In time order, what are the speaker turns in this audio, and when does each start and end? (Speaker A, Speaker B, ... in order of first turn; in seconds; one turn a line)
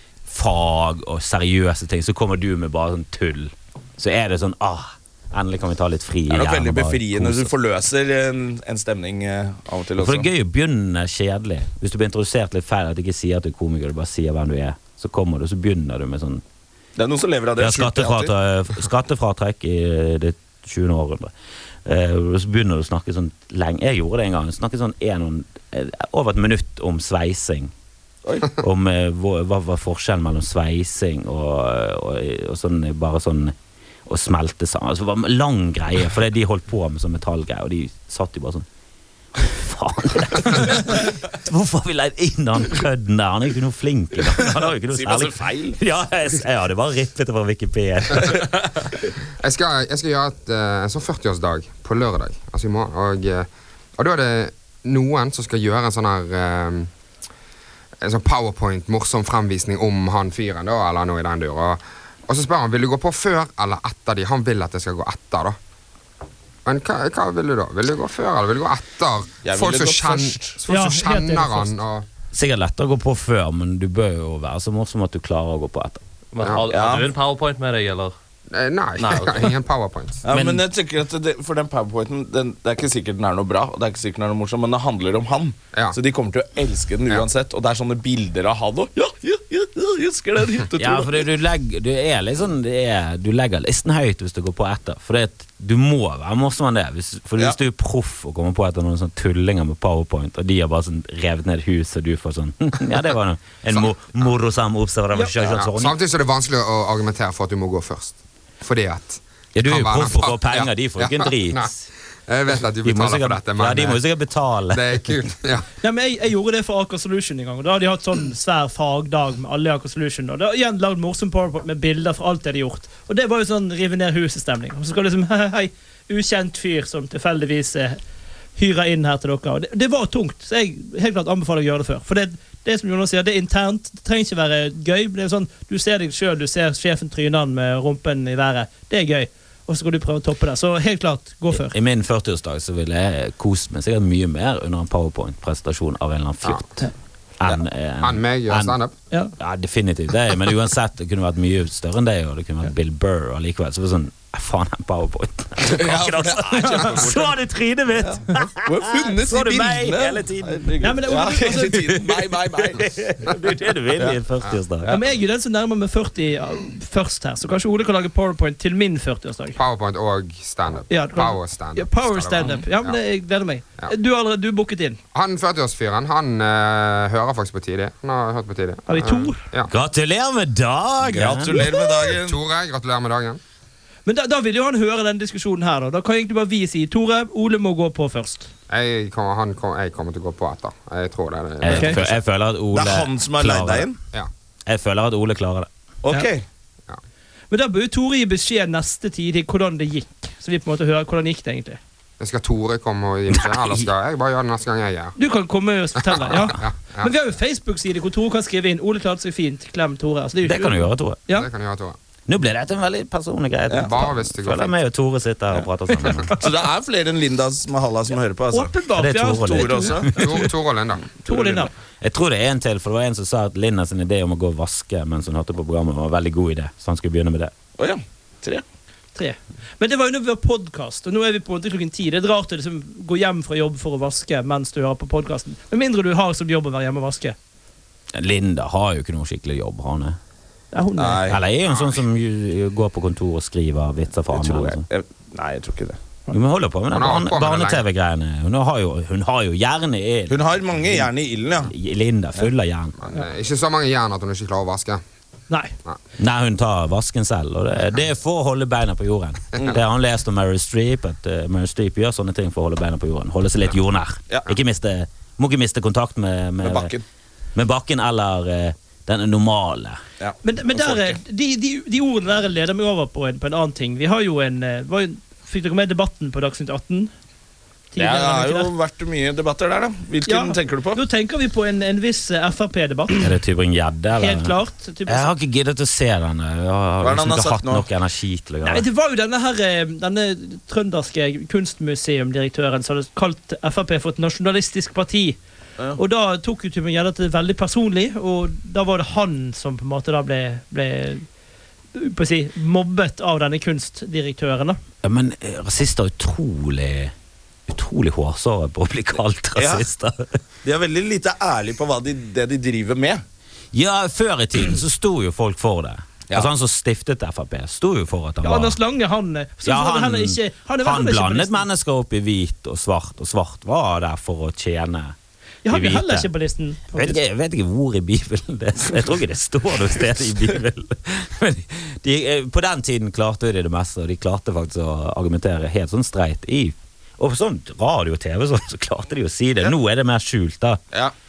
Speaker A: 0.3-7.5
Speaker B: 6.3-10.3
Speaker A: 10.0-16.4
Speaker B: 17.0-18.3
Speaker A: 17.6-21.3
Speaker A: 21.9-27.7
Speaker B: 28.2-28.5
Speaker A: 28.6-33.5
Speaker A: 34.1-38.7
Speaker A: 39.4-48.9
Speaker B: 44.4-45.8
Speaker C: 49.4-56.9
Speaker C: 58.0-65.6
Speaker C: 66.7-72.1
Speaker B: 69.4-70.6
Speaker D: 70.7-71.8
Speaker A: 72.3-76.0
Speaker E: 76.3-78.1
Speaker B: 76.7-77.1
Speaker C: 78.5-80.2
Speaker E: 79.0-79.5
Speaker B: 80.2-91.3
Speaker A: 90.8-106.0
Speaker C: 105.4-111.7
Speaker A: 109.5-111.8
Speaker C: 112.3-114.0
Speaker A: 112.8-114.9
Speaker C: 114.7-115.7
Speaker D: 115.8-128.0
Speaker D: 128.6-141.8
Speaker A: 141.5-146.8
Speaker A: 147.4-148.8
Speaker C: 148.0-148.9
Speaker A: 149.4-160.6
Speaker B: 155.6-157.4
Speaker B: 158.0-162.9
Speaker D: 160.8-162.0
Speaker A: 162.7-165.0
Speaker D: 164.9-169.6
Speaker C: 169.6-173.0
Speaker D: 170.9-175.0
Speaker C: 175.1-179.7
Speaker D: 178.9-179.4
Speaker A: 179.7-181.8
Speaker B: 181.0-182.4
Speaker C: 182.2-183.4
Speaker D: 184.1-188.5
Speaker C: 188.7-192.1
Speaker A: 191.6-194.0
Speaker D: 191.7-192.0
Speaker B: 192.7-194.0
Speaker A: 194.7-195.7
Speaker B: 196.0-196.4
Speaker D: 197.5-201.8
Speaker C: 202.2-205.2
Speaker A: 203.3-203.9
Speaker D: 205.2-211.5
Speaker C: 206.1-207.1
Speaker A: 210.4-211.2
Speaker C: 211.3-212.0
Speaker A: 212.3-216.4
Speaker B: 213.7-213.9
Speaker C: 213.8-214.8
Speaker B: 216.4-218.7
Speaker D: 218.5-220.0
Speaker A: 218.9-220.4
Speaker B: 219.3-220.1
Speaker C: 220.2-221.1
Speaker D: 221.2-221.7
Speaker B: 221.3-221.7
Speaker A: 222.0-227.5
Speaker B: 227.8-228.6
Speaker D: 229.2-237.4
Speaker A: 238.2-240.2
Speaker D: 240.7-241.3
Speaker B: 241.0-241.4
Speaker A: 241.3-244.8
Speaker C: 241.7-242.0
Speaker B: 244.3-246.0
Speaker A: 246.3-251.1
Speaker C: 246.9-247.8
Speaker B: 250.3-251.7
Speaker A: 251.7-253.0
Speaker C: 253.0-255.0
Speaker D: 255.5-255.8
Speaker A: 256.2-266.9
Speaker B: 266.6-267.0
Speaker A: 267.6-270.0
Speaker B: 270.2-271.2
Speaker D: 270.4-277.1
Speaker D: 277.9-278.7
Speaker B: 278.0-281.0
Speaker D: 280.3-283.3
Speaker A: 283.1-288.9
Speaker D: 284.2-285.3
Speaker B: 287.0-287.9
Speaker D: 288.6-295.4
Speaker D: 296.0-301.2
Speaker D: 301.9-304.8
Speaker A: 305.0-307.1
Speaker A: 307.7-310.3
Speaker B: 309.6-309.9
Speaker B: 310.6-313.2
Speaker A: 313.7-318.8
Speaker D: 318.4-321.6
Speaker A: 319.6-325.1
Speaker D: 325.6-327.2
Speaker A: 325.7-326.3
Speaker A: 326.9-340.8